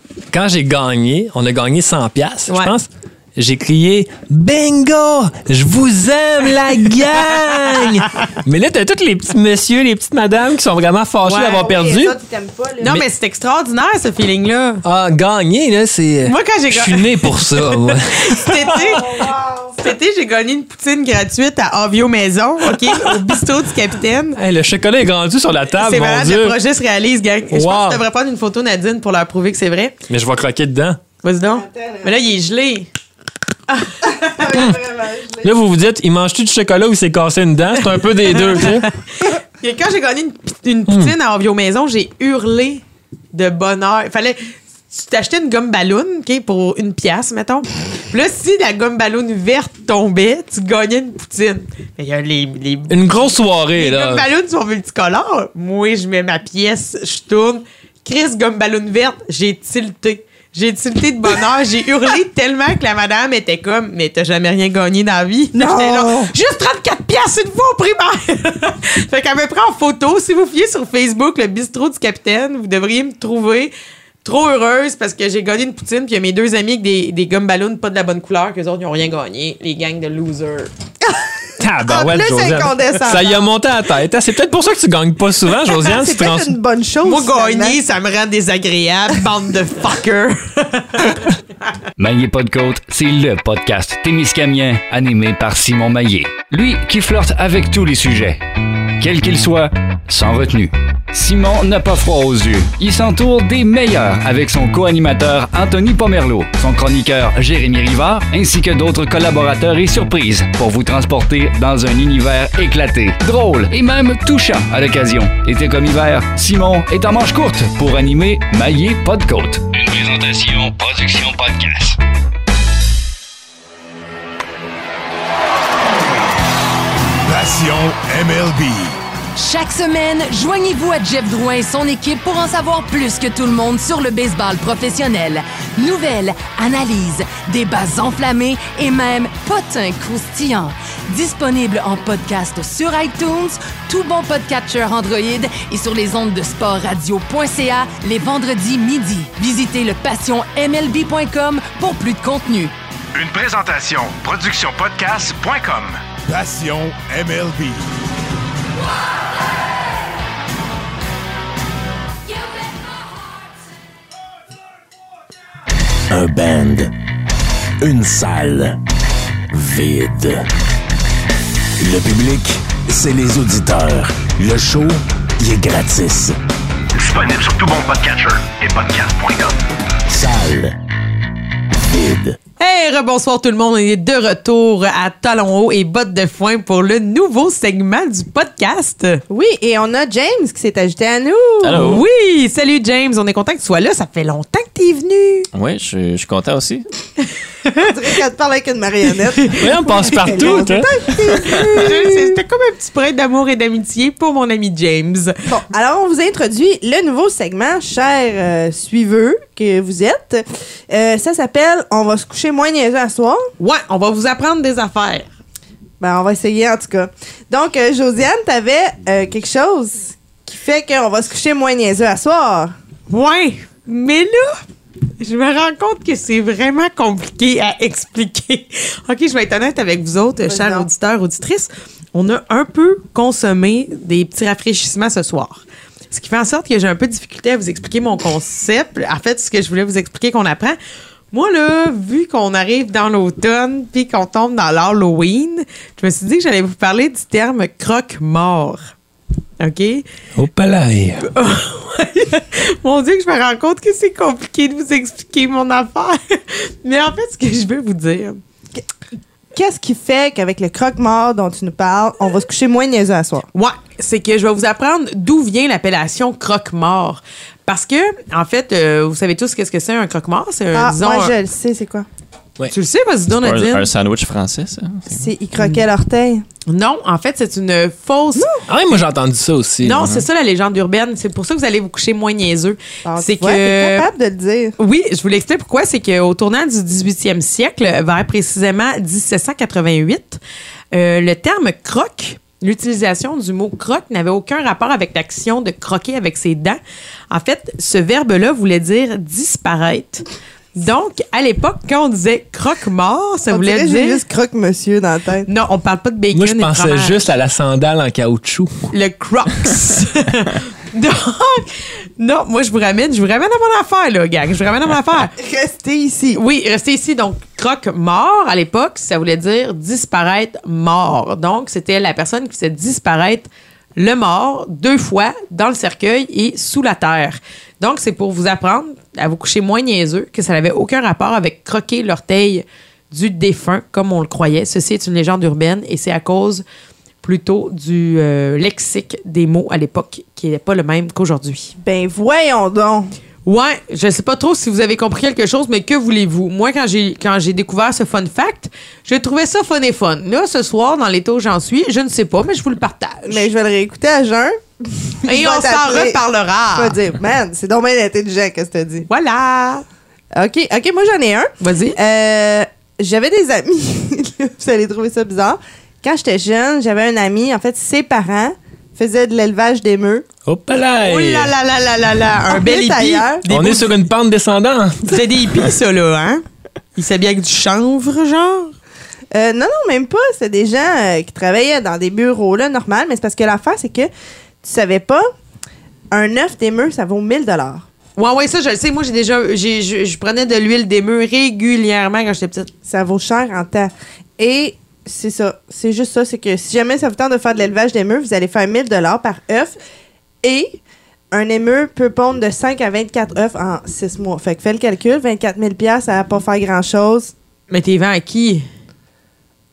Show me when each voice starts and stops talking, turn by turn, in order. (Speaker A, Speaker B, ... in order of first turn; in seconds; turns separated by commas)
Speaker A: 0.3-12.2, Speaker B: 7.6-8.2, Speaker B: 11.3-11.6, Speaker C: 11.5-13.0, Speaker B: 12.8-14.8, Speaker A: 14.8-18.8, Speaker B: 16.2-19.1, Speaker C: 18.7-19.8, Speaker B: 19.8-24.4, Speaker A: 22.9-23.1, Speaker A: 24.4-26.6, Speaker B: 25.7-29.9, Speaker A: 27.5-28.0, Speaker A: 30.1-31.0, Speaker B: 31.2-32.9, Speaker C: 31.6-32.1, Speaker B: 33.7-34.1, Speaker C: 34.0-35.5, Speaker A: 34.5-34.8, Speaker A: 35.4-38.9, Speaker B: 38.2-44.4, Speaker A: 40.9-41.1, Speaker B: 44.9-80.7, Speaker A: 52.9-54.3, Speaker C: 65.5-66.3, Speaker A: 81.6-86.6, Speaker C: 81.9-83.5, Speaker C: 85.8-87.8, Speaker B: 87.0-91.2, Speaker D: 92.0-98.4, Speaker D: 99.0-122.0, Speaker E: 127.2-129.0, Speaker F: 129.4-152.7, Speaker G: 153.1-156.0, Speaker E: 156.3-158.0, Speaker E: 166.1-166.9, Speaker E: 167.8-168.8, Speaker E: 169.5-170.5, Speaker E: 171.8-176.4, Speaker G: 176.9-179.6, Speaker E: 180.1-180.8, Speaker E: 181.8-182.4, Speaker B: 182.6-189.2, Speaker C: 189.3-191.9, Speaker H: 191.6-192.1, Speaker B: 191.8-195.5, Speaker H: 195.5-196.9, Speaker B: 197.6-197.9, Speaker C: 197.8-202.4, Speaker B: 199.4-200.6, Speaker A: 199.6-201.7, Speaker B: 201.4-205.4, Speaker C: 205.4-213.5, Speaker B: 213.6-215.3, Speaker C: 216.0-222.7, Speaker B: 223.1-224.6, Speaker B: 225.2-240.8, Speaker C: 230.5-230.9, Speaker B: 241.3-248.9, Speaker B: 249.6-250.1, Speaker A: 250.4-251.3, Speaker B: 251.2-258.4, Speaker C: 259.5-263.5, Speaker B: 263.6-271.3, Speaker C: 270.7-272.1, Speaker B: 272.7-273.9, Speaker H: 273.3-275.3, Speaker C: 275.1-276.4, Speaker B: 275.6-275.9, Speaker B: 276.7-278.5, Speaker C: 278.4-278.6, Speaker A: 278.7-280.1, Speaker B: 279.8-284.1, Speaker H: 280.0-280.2, Speaker C: 283.1-284.8, Speaker B: 284.8-290.4, Speaker B: 290.9-296.8, Speaker B: 297.3-300.2, Speaker B: 300.8-304.2, Speaker C: 303.5-305.5, Speaker B: 305.5-307.2, Speaker A: 306.3-308.9, Speaker B: 308.9-315.3, Speaker C: 315.4-316.4, Speaker B: 316.4-336.6, Speaker B: 337.2-341.7, Speaker C: 341.8-343.1, Speaker B: 343.4-353.5, Speaker C: 353.3-356.2, Speaker B: 355.3-356.9, Speaker C: 356.7-359.1, Speaker B: 359.1-359.8, Speaker C: 360.4-370.2, Speaker B: 361.6-362.0, Speaker A: 370.4-371.6, Speaker B: 371.0-374.0, Speaker C: 372.5-373.4, Speaker A: 373.5-375.2, Speaker B: 375.1-376.4, Speaker B: 376.9-378.7, Speaker C: 379.3-384.1, Speaker C: 384.6-385.3, Speaker C: 386.1-387.9, Speaker B: 388.2-392.7, Speaker C: 392.9-399.8, Speaker C: 400.4-400.8, Speaker C: 401.3-407.3, Speaker B: 407.7-408.7